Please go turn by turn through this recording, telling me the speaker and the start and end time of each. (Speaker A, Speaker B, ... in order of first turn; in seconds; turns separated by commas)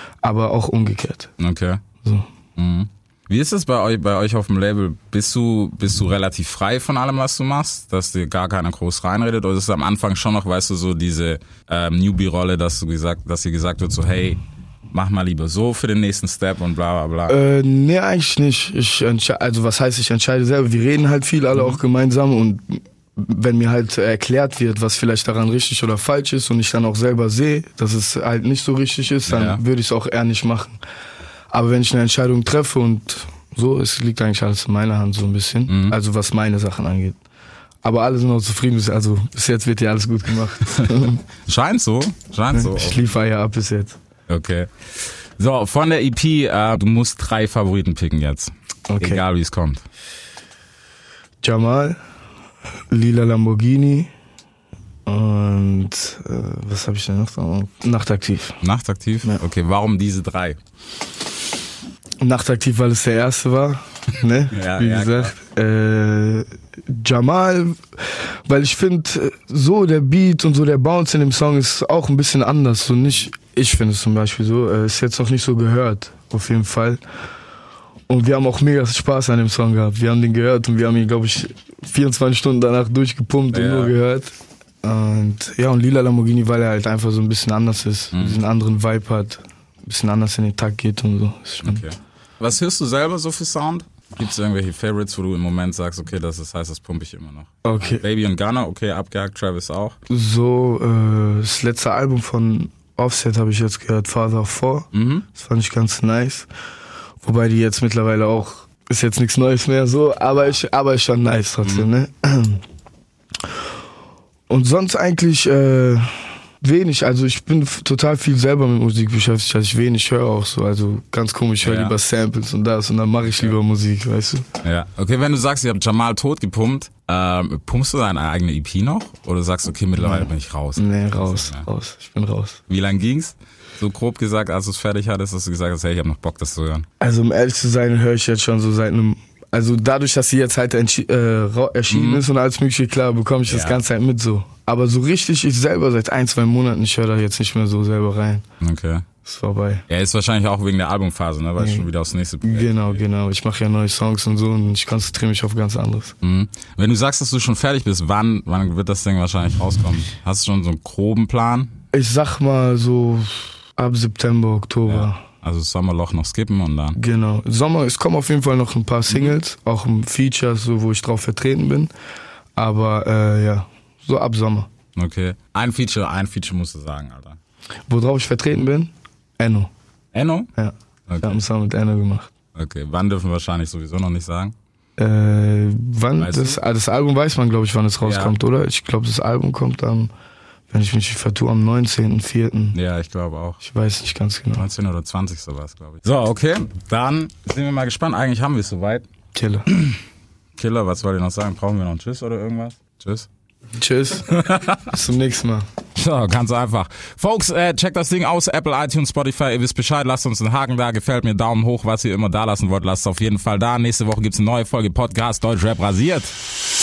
Speaker A: 0.2-1.3, Speaker B: 1.4-1.8, Speaker B: 2.5-14.4, Speaker B: 14.9-17.4, Speaker A: 17.3-30.8, Speaker B: 21.5-21.8, Speaker B: 29.2-29.6, Speaker A: 31.5-37.2, Speaker B: 35.7-36.0, Speaker A: 37.8-41.2, Speaker B: 41.5-43.1, Speaker A: 42.5-44.0, Speaker B: 44.3-44.7, Speaker B: 45.4-49.8, Speaker A: 48.9-49.2, Speaker A: 51.4-52.0, Speaker A: 52.9-54.1, Speaker A: 55.0-58.6, Speaker B: 58.6-60.6, Speaker A: 62.2-77.0, Speaker B: 64.5-65.3, Speaker A: 78.1-91.8, Speaker B: 83.5-83.9, Speaker B: 88.1-88.4, Speaker B: 91.6-100.0, Speaker A: 97.6-98.0, Speaker A: 100.1-106.5, Speaker B: 104.9-105.3, Speaker A: 107.2-112.6, Speaker B: 111.6-111.9, Speaker A: 114.5-124.4, Speaker B: 121.6-121.9, Speaker B: 124.6-131.6, Speaker A: 130.0-132.6, Speaker B: 132.7-136.8, Speaker A: 137.0-148.4, Speaker B: 141.9-142.2, Speaker B: 143.5-143.8, Speaker B: 148.6-149.1, Speaker A: 149.2-149.8, Speaker B: 149.9-153.0, Speaker A: 151.6-151.9, Speaker A: 152.4-156.1, Speaker B: 156.2-161.7, Speaker A: 161.9-165.2, Speaker B: 164.8-167.0, Speaker A: 166.9-171.9, Speaker A: 172.6-174.7, Speaker B: 174.9-177.4, Speaker A: 177.9-179.7, Speaker B: 180.1-180.5, Speaker A: 180.6-182.3, Speaker B: 181.1-181.4, Speaker B: 182.5-184.5, Speaker A: 185.0-190.1, Speaker B: 186.2-186.6, Speaker B: 188.0-188.3, Speaker A: 190.7-192.8, Speaker B: 192.7-193.6, Speaker A: 193.6-194.7, Speaker B: 194.6-199.1, Speaker A: 199.3-199.7, Speaker B: 200.6-203.3, Speaker A: 203.8-204.3, Speaker B: 204.3-204.9, Speaker A: 204.8-205.6, Speaker B: 205.9-216.3